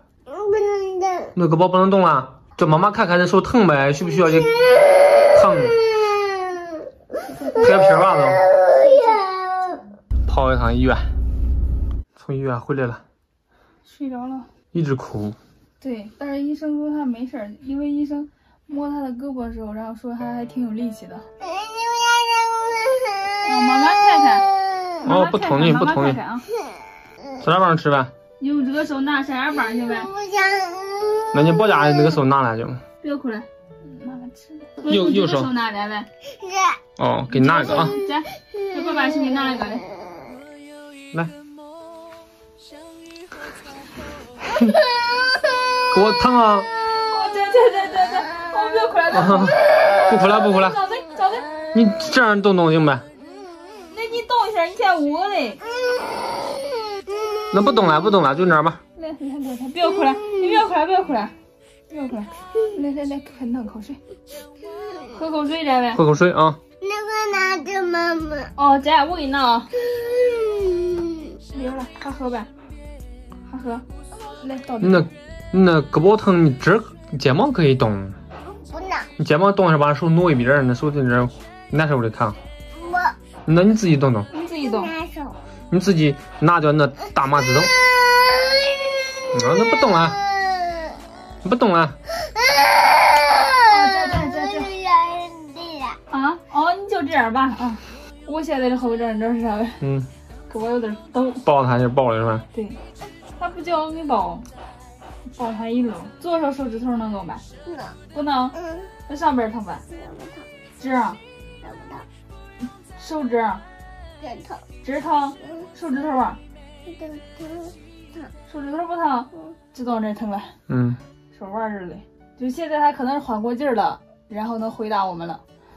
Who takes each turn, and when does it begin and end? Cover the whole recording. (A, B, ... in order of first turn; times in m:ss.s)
0:00.8-0:01.2 A
0:01.3-0:04.7 B
0:05.2-0:05.9 B
0:07.3-0:07.9 C
0:07.6-0:08.5 B
0:08.8-0:09.3 A
0:10.3-0:11.1 B
0:12.2-0:13.0 B
0:13.8-0:14.5 C
0:14.7-0:15.4 B
0:15.8-0:21.2 C
0:21.6-0:23.2 A
0:23.4-0:24.5 C
0:25.0-0:26.4 C
0:25.0-0:26.2 B
0:27.4-0:28.1 B
0:28.4-0:30.1 C
0:30.2-0:31.2 A
0:31.3-0:32.8 B
0:33.0-0:36.1 C
0:34.8-0:35.5 B
0:37.0-0:38.0 B
0:37.3-0:39.8 C
0:45.9-0:46.7 B
0:47.1-0:51.5 C
0:49.1-0:50.8 B
0:51.7-0:53.0 B
0:53.9-0:55.6 C
0:57.5-0:58.8 B
0:59.0-1:01.3 C
1:01.9-1:04.0 C
1:05.1-1:06.0 C
1:05.9-1:06.6 B
1:06.9-1:08.4 A
1:08.6-1:09.7 C
1:10.2-1:11.0 A
1:11.5-1:12.5 C
1:13.5-1:13.8 C
1:14.4-1:15.1 C
1:14.8-1:18.2 B
1:19.2-1:22.4 B
1:23.5-1:24.3 B
1:24.3-1:24.9 C
1:25.0-1:25.3 A
1:25.7-1:27.7 B
1:29.3-1:30.2 B
1:31.4-1:31.9 B
1:33.6-1:34.8 C
1:34.8-1:35.9 A
1:36.1-1:39.8 C
1:39.8-1:40.1 B
1:40.5-1:41.4 C
1:41.4-1:42.4 B
1:42.5-1:42.8 C
1:43.4-1:44.5 C
1:45.3-1:47.4 C
1:48.1-1:49.8 C
1:50.8-1:51.2 C
1:51.6-1:52.0 A
1:53.0-1:53.6 C
1:54.8-1:56.4 C
1:57.0-1:57.7 A
1:58.5-2:00.5 C
2:00.7-2:01.0 B
2:01.3-2:05.4 C